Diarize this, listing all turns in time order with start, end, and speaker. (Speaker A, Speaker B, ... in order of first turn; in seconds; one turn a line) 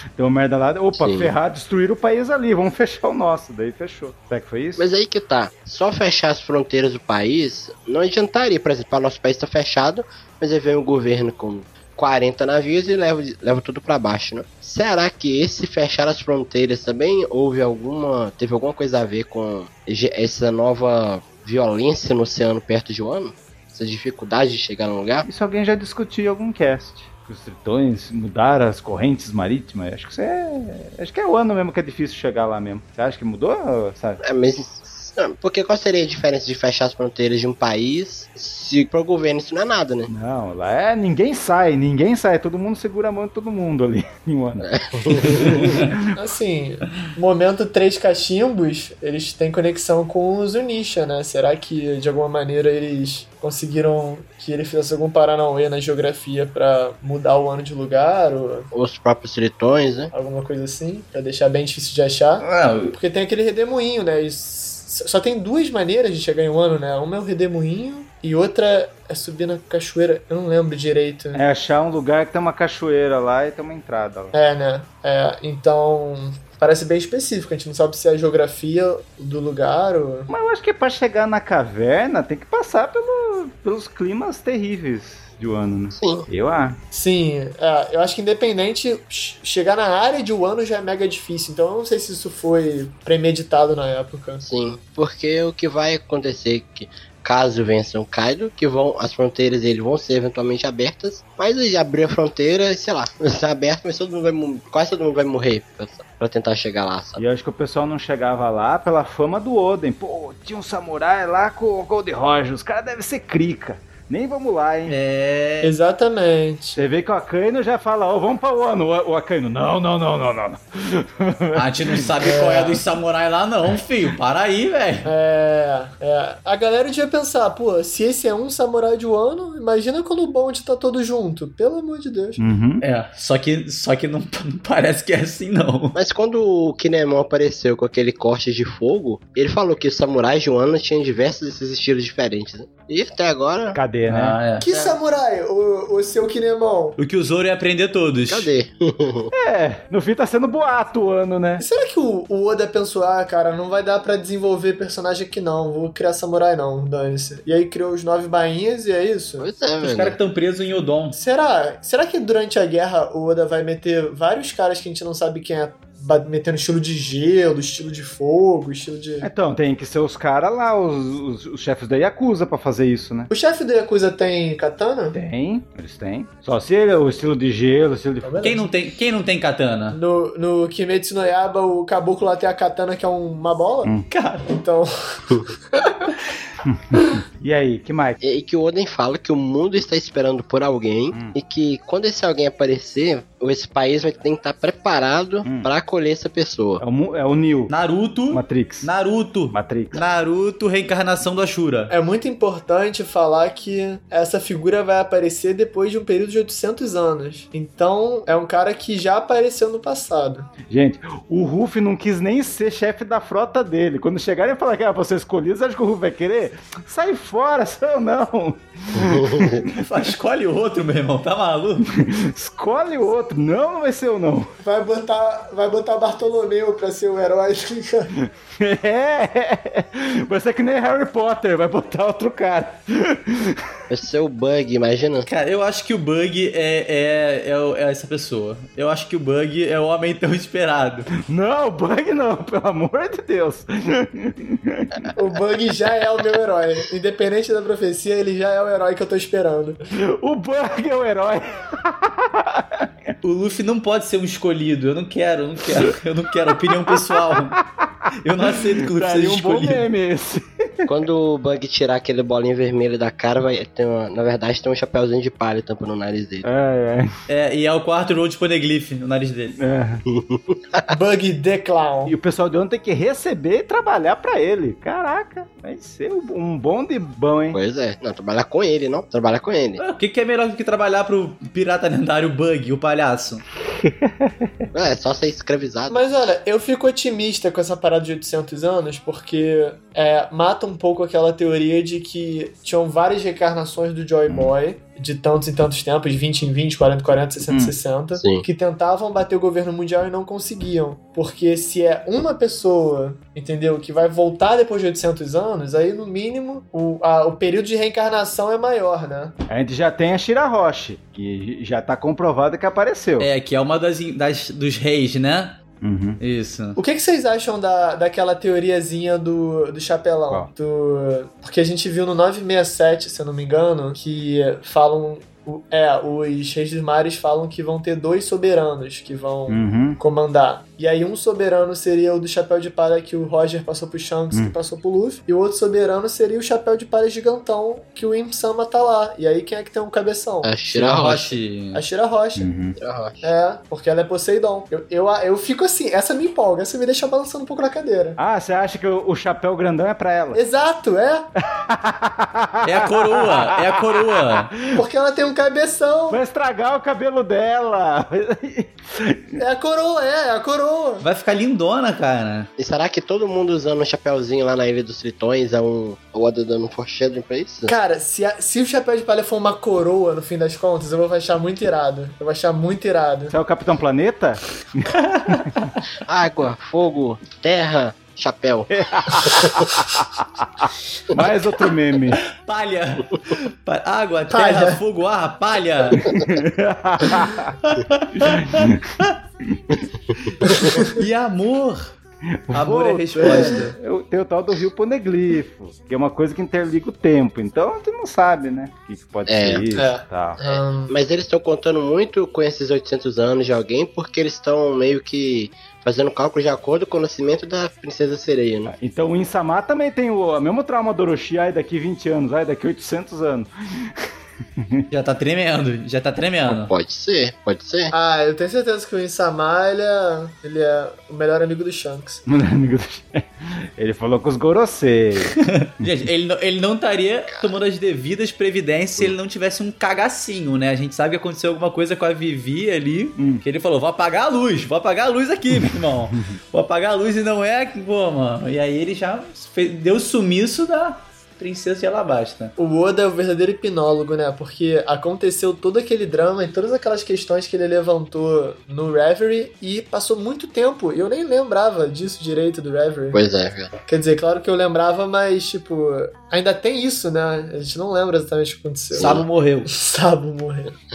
Speaker A: 0.2-4.9
Speaker B: 0.9-1.3
Speaker B: 4.8-25.3
Speaker A: 25.3-34.2
Speaker B: 34.2-40.1
Speaker A: 40.1-46.0
Speaker B: 44.6-45.8
Speaker C: 46.1-58.7
Speaker B: 58.7-60.1
Speaker C: 60.1-71.4
Speaker D: 62.4-63.0
Speaker A: 71.3-74.3
Speaker C: 74.3-80.3
Speaker A: 80.3-86.8
Speaker B: 85.9-86.3
Speaker C: 86.9-94.4
Speaker B: 94.4-107.2
Speaker A: 107.2-115.0
Speaker D: 114.9-115.7
Speaker C: 115.6-116.8
Speaker A: 116.8-122.1
Speaker D: 121.5-125.1
Speaker C: 122.2-122.8
Speaker C: 125.0-132.4
Speaker A: 132.4-132.8
Speaker D: 132.8-136.0
Speaker B: 135.9-143.8
Speaker A: 143.8-144.4
Speaker D: 144.1-144.7
Speaker C: 144.6-147.0
Speaker B: 144.7-145.0
Speaker D: 147.0-148.5
Speaker B: 148.3-149.3
Speaker A: 149.3-151.6
Speaker C: 151.6-159.5
Speaker B: 159.4-160.2
Speaker D: 159.8-161.2
Speaker C: 161.1-169.3
Speaker A: 169.2-173.3
Speaker C: 173.3-175.2
Speaker A: 175.1-178.4
Speaker C: 178.2-178.7
Speaker D: 178.4-180.0
Speaker C: 179.9-183.9
Speaker D: 184.1-184.5
Speaker C: 184.5-186.1
Speaker A: 186.7-188.2
Speaker B: 188.2-196.8
Speaker A: 195.4-195.7
Speaker A: 196.8-197.7
Speaker D: 197.7-201.9
Speaker A: 198.3-198.9
Speaker A: 199.5-200.0
Speaker C: 201.9-210.5
Speaker A: 210.7-219.7
Speaker B: 219.0-219.6
Speaker D: 219.7-221.9
Speaker A: 222.0-224.5
Speaker C: 224.6-228.1
Speaker A: 228.2-233.6
Speaker B: 233.9-235.3
Speaker D: 235.3-241.1
Speaker A: 241.3-245.1
Speaker C: 245.2-249.8
Speaker A: 250.0-253.1
Speaker D: 253.2-257.6
Speaker A: 256.5-260.9
Speaker D: 258.2-259.9
Speaker B: 260.9-266.5
Speaker A: 266.4-267.1
Speaker D: 267.3-269.6
Speaker A: 269.6-270.0
Speaker B: 270.1-270.9
Speaker C: 270.9-272.1
Speaker A: 272.1-277.6
Speaker B: 277.5-279.8
Speaker D: 279.8-283.4
Speaker A: 283.7-284.5
Speaker B: 284.7-286.1
Speaker C: 285.9-309.3
Speaker A: 294.3-294.5
Speaker A: 297.5-297.7
Speaker B: 298.2-298.5
Speaker A: 309.5-313.3
Speaker D: 313.2-315.6
Speaker A: 315.8-316.2
Speaker D: 316.2-316.8
Speaker C: 316.8-340.5
Speaker A: 329.5-330.0
Speaker B: 340.4-341.4
Speaker D: 340.7-341.8
Speaker C: 341.7-342.5
Speaker A: 342.4-342.8
Speaker B: 342.8-343.3
Speaker C: 343.2-348.2
Speaker A: 348.2-350.4
Speaker C: 350.3-351.3
Speaker A: 351.5-354.8
Speaker D: 352.6-354.5
Speaker C: 354.7-356.2
Speaker A: 356.1-359.4
Speaker C: 359.4-361.1
Speaker D: 361.0-362.5
Speaker B: 362.6-367.7
Speaker C: 367.7-373.3
Speaker A: 373.3-375.5
Speaker D: 374.9-375.7
Speaker B: 376.1-379.6
Speaker A: 378.7-382.2
Speaker D: 382.3-386.2
Speaker C: 384.3-384.8
Speaker A: 386.1-387.5
Speaker D: 387.6-389.1
Speaker A: 388.2-389.6
Speaker D: 390.4-391.9
Speaker C: 390.5-390.9
Speaker A: 392.5-400.4
Speaker D: 392.5-393.8
Speaker C: 393.2-393.7
Speaker B: 399.3-399.7
Speaker C: 399.7-400.9
Speaker B: 400.4-408.7
Speaker A: 408.7-414.9
Speaker D: 414.9-416.7
Speaker B: 416.5-417.9
Speaker C: 417.9-422.2
Speaker A: 422.3-426.1
Speaker D: 425.2-442.5
Speaker B: 427.3-427.5
Speaker A: 433.2-433.4
Speaker A: 435.5-436.3
Speaker C: 442.6-453.2
Speaker B: 453.1-453.7
Speaker C: 453.9-460.8
Speaker B: 458.9-459.2
Speaker D: 459.0-459.7